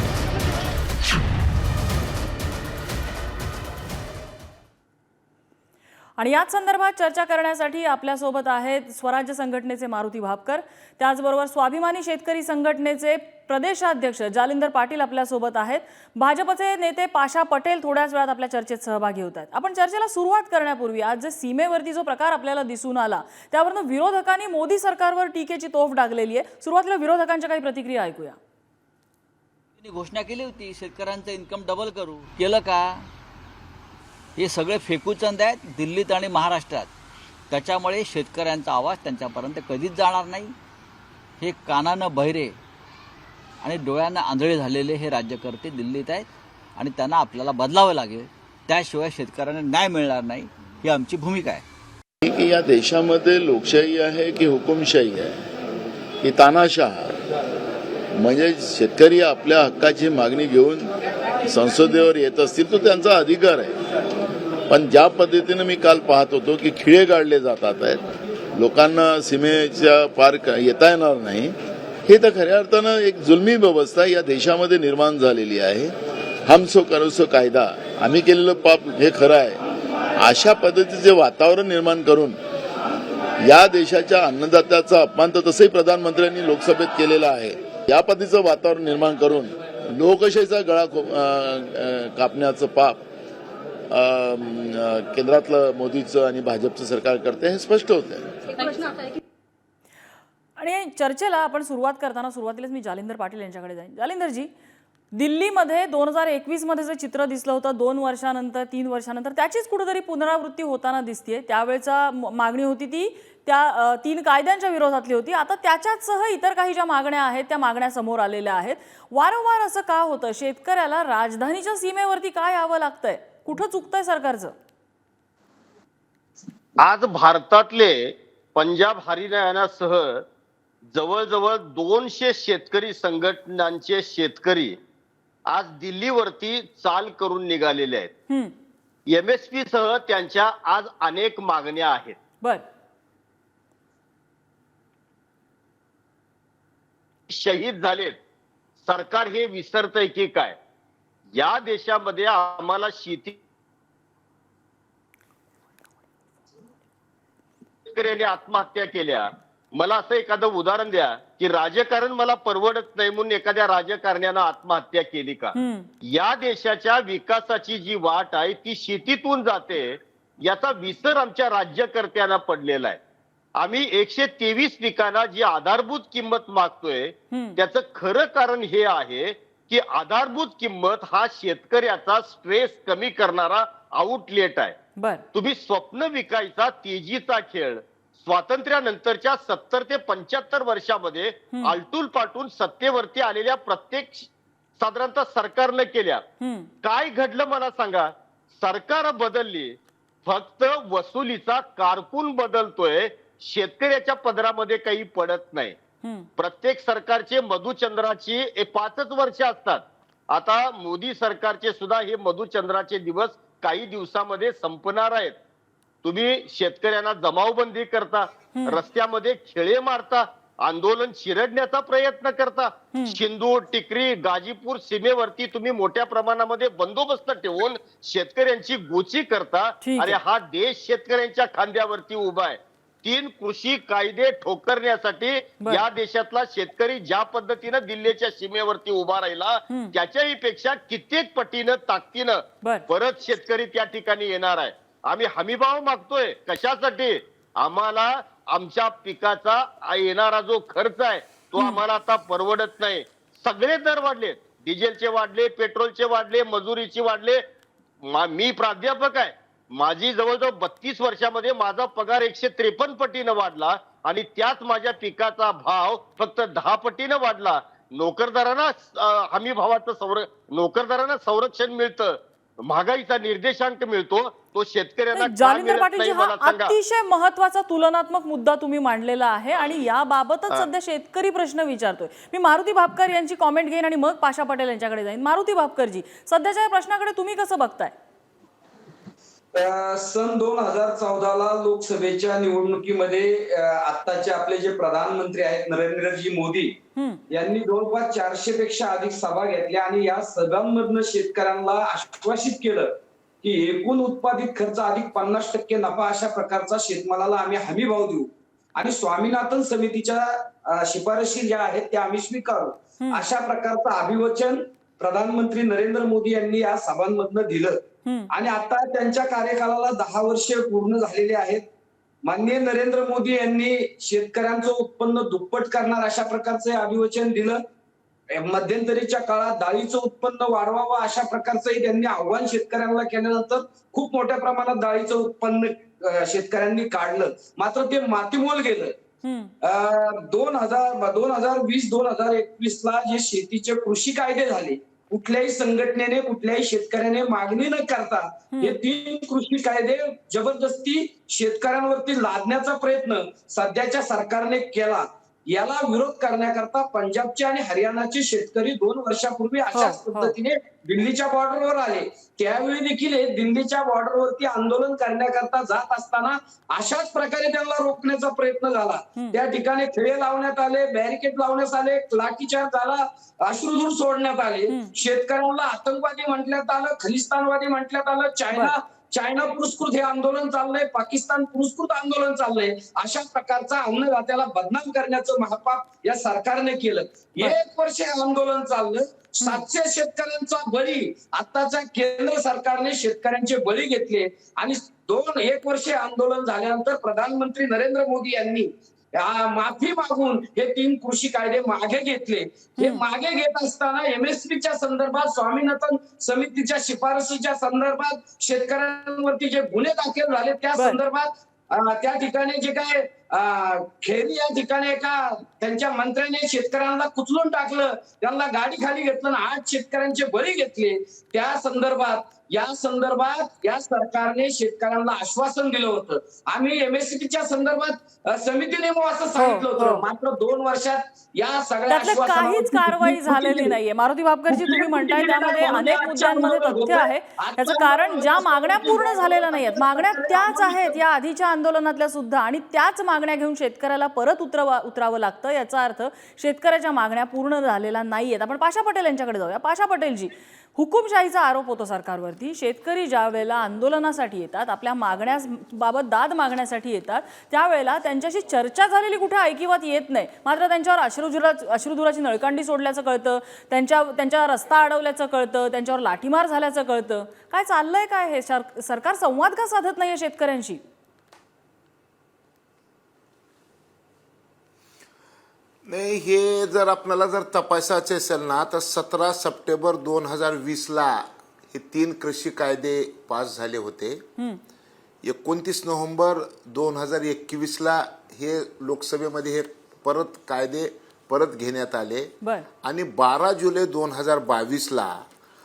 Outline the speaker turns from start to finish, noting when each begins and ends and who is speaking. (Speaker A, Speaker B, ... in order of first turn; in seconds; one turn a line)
Speaker A: 6.2-28.4
Speaker B: 29.8-33.1
Speaker B: 34.4-36.9
Speaker B: 37.5-40.5
Speaker B: 41.4-42.5
Speaker B: 43.6-51.6
Speaker C: 52.2-55.4
Speaker C: 56.2-57.1
Speaker C: 58.2-60.9
Speaker C: 61.5-63.8
Speaker C: 64.7-68.0
Speaker C: 68.5-71.5
Speaker C: 72.1-75.9
Speaker C: 76.5-79.6
Speaker C: 80.2-82.4
Speaker C: 83.4-93.0
Speaker C: 93.9-98.3
Speaker A: 100.6-104.5
Speaker A: 105.2-124.5
Speaker D: 126.8-130.2
Speaker D: 130.9-134.8
Speaker D: 135.5-138.1
Speaker A: 138.3-138.6
Speaker D: 139.1-142.2
Speaker D: 147.3-148.2
Speaker D: 148.8-150.6
Speaker D: 151.3-153.4
Speaker D: 157.9-165.6
Speaker A: 165.6-165.9
Speaker D: 166.1-173.0
Speaker D: 173.6-184.8
Speaker A: 177.3-177.6
Speaker A: 185.0-185.2
Speaker D: 185.3-196.2
Speaker A: 196.4-196.7
Speaker D: 196.8-205.8
Speaker A: 206.0-206.3
Speaker D: 206.4-215.4
Speaker D: 216.0-257.4
Speaker A: 218.6-218.8
Speaker A: 229.8-230.2
Speaker A: 239.7-239.9
Speaker D: 258.1-276.8
Speaker A: 275.1-287.9
Speaker E: 289.5-296.8
Speaker A: 297.0-297.2
Speaker E: 297.3-321.7
Speaker A: 313.0-313.2
Speaker A: 318.1-318.3
Speaker E: 322.2-327.6
Speaker E: 328.3-339.0
Speaker A: 339.2-339.5
Speaker E: 339.6-433.8
Speaker A: 348.5-348.8
Speaker A: 359.7-360.3
Speaker A: 402.8-403.0
Speaker A: 429.4-430.0
Speaker A: 431.9-470.8
Speaker E: 434.5-441.0
Speaker F: 475.9-484.2
Speaker F: 485.2-495.2
Speaker A: 492.4-492.7